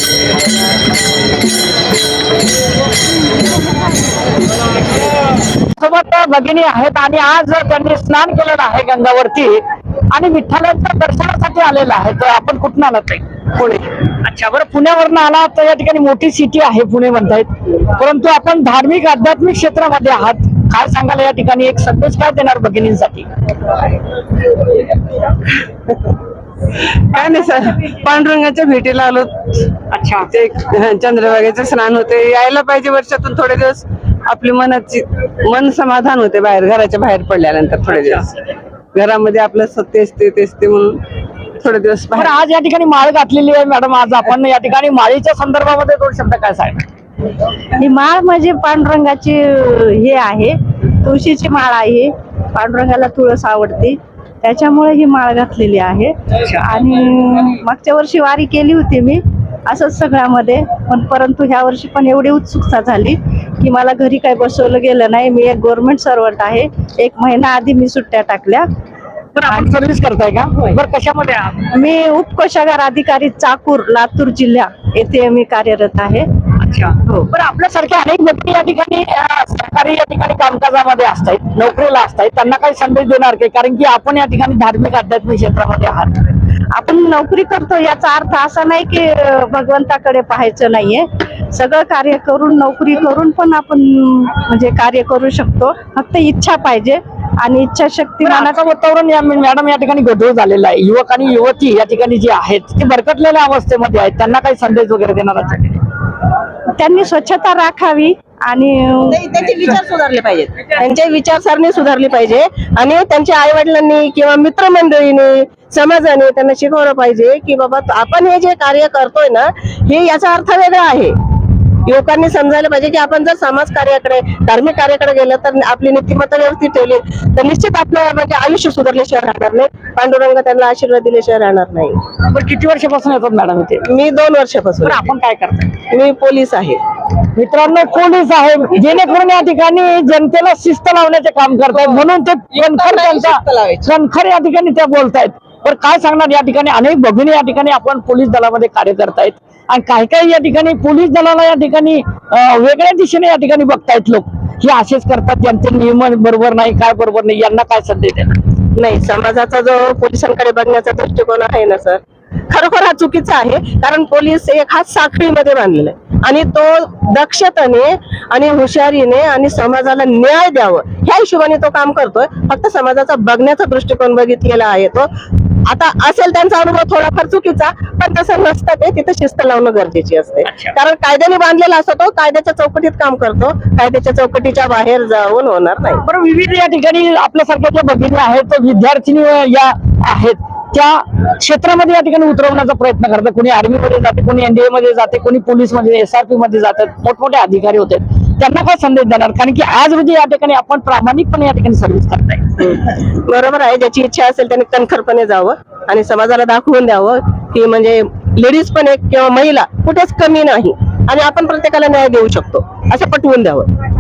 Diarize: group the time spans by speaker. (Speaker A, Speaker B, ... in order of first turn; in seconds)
Speaker A: 5.7-9.6, 10.1-23.3, 29.9-30.3, 42.1-46.9, 69.3-71.7, 76.6-86.1, 98.2-105.8, 132.2-133.8, 134.8-135.7, 137.3-158.4, 180.4-180.8, 186.0-202.7
Speaker B: 24.5-24.7, 25.3-26.0, 26.7-29.7, 30.3-41.0, 41.6-42.3
Speaker C: 47.8-68.7, 71.7-76.3, 86.7-98.6, 106.7-109.2
Speaker D: 109.1-121.2, 121.8-132.0, 133.9-135.0, 135.9-136.8, 142.6-143.8, 158.8-175.1, 175.7-186.0, 202.6-213.7